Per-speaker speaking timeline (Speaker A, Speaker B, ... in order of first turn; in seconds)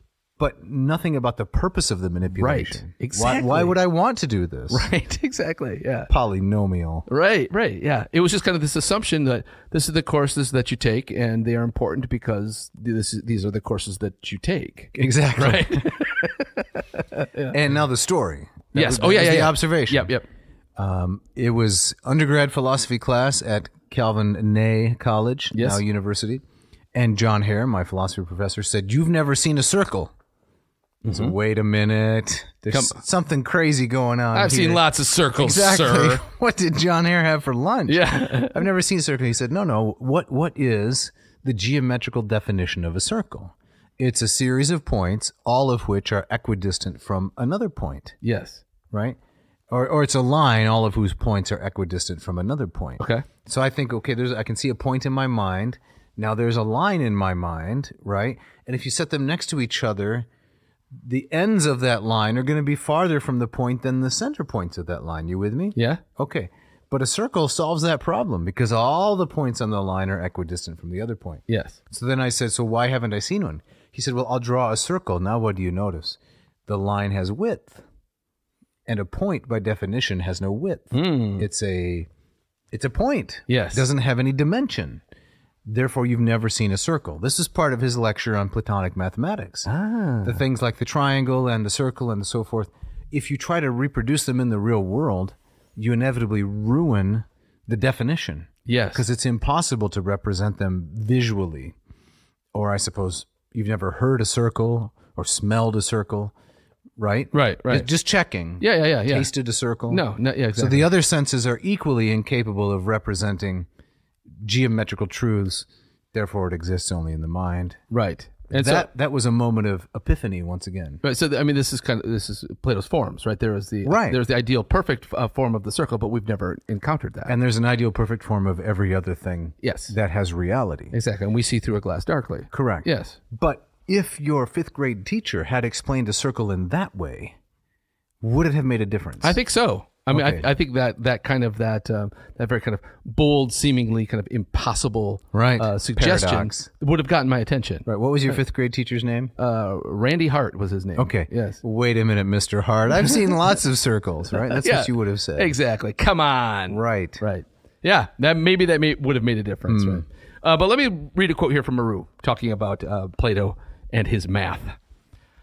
Speaker A: 0.4-4.9, 6.1-7.0, 14.9-16.0, 17.5-20.1, 20.8-30.1, 31.1-34.9, 35.4-48.2, 48.9-49.2, 49.7-60.3, 61.0-77.8, 78.9-82.1, 82.7-85.0, 85.7-89.7, 90.2-101.8, 102.5-106.3, 107.0-110.0, 110.6-113.7, 114.4-117.8, 118.5-121.0, 123.8-124.2, 127.3-130.9, 132.5-137.4, 138.2-139.4, 140.1-140.4, 145.3-146.7, 147.9-149.3, 151.0-155.5, 156.7-157.2, 159.7-160.0
Speaker B: 2.4-3.8, 4.7-6.1, 7.1-17.6, 18.7-20.2, 25.5-25.8, 31.0-31.4, 32.7-33.0, 34.3-36.2, 37.9-38.6, 48.2-48.6, 53.0-53.3, 65.8-66.0, 71.5-71.8, 80.9-81.5, 83.5-83.9, 89.7-90.4, 98.7-99.0, 107.3-107.9, 108.6-109.3, 109.9-110.9, 117.9-118.9, 121.0-127.3, 129.6-129.9, 130.9-133.2, 139.2-147.9, 149.4-151.6, 154.4-164.8